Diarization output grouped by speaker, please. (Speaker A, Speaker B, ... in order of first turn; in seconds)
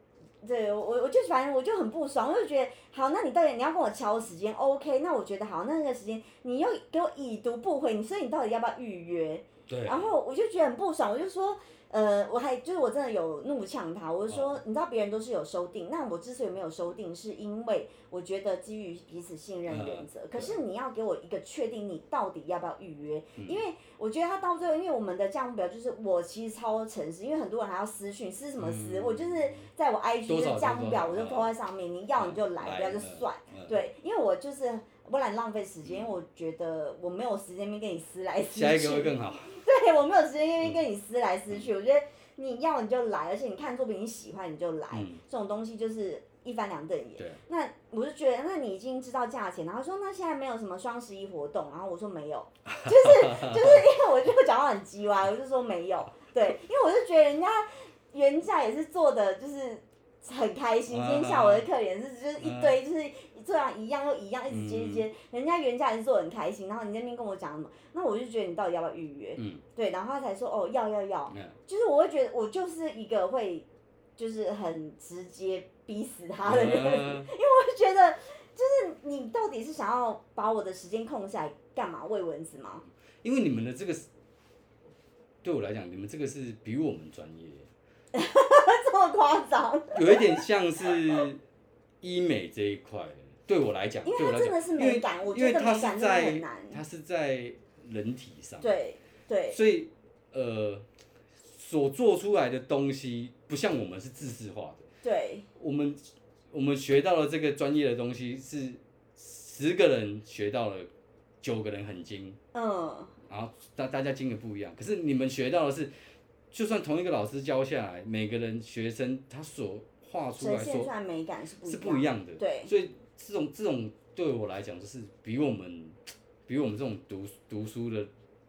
Speaker A: 0.4-82.8, 88.1-90.5, 94.0-96.8, 98.6-99.6, 105.0-105.5, 112.5-113.2, 120.4-122.7
Speaker B: 9.7-10.1, 14.3-14.6, 19.7-20.6, 28.6-29.7, 30.3-31.5, 32.2-33.8, 35.9-36.1, 38.5-39.6, 44.9-45.2, 52.6-53.9, 60.9-61.7, 62.4-62.8, 64.5-65.1, 69.4-69.6, 71.3-71.6, 76.4-77.3, 83.2-84.1, 85.4-87.7, 89.9-91.4, 92.0-98.7, 99.5-100.8, 101.4-104.8, 105.6-110.9, 111.4-112.4, 113.3-115.9, 116.5-120.9, 121.7-128.1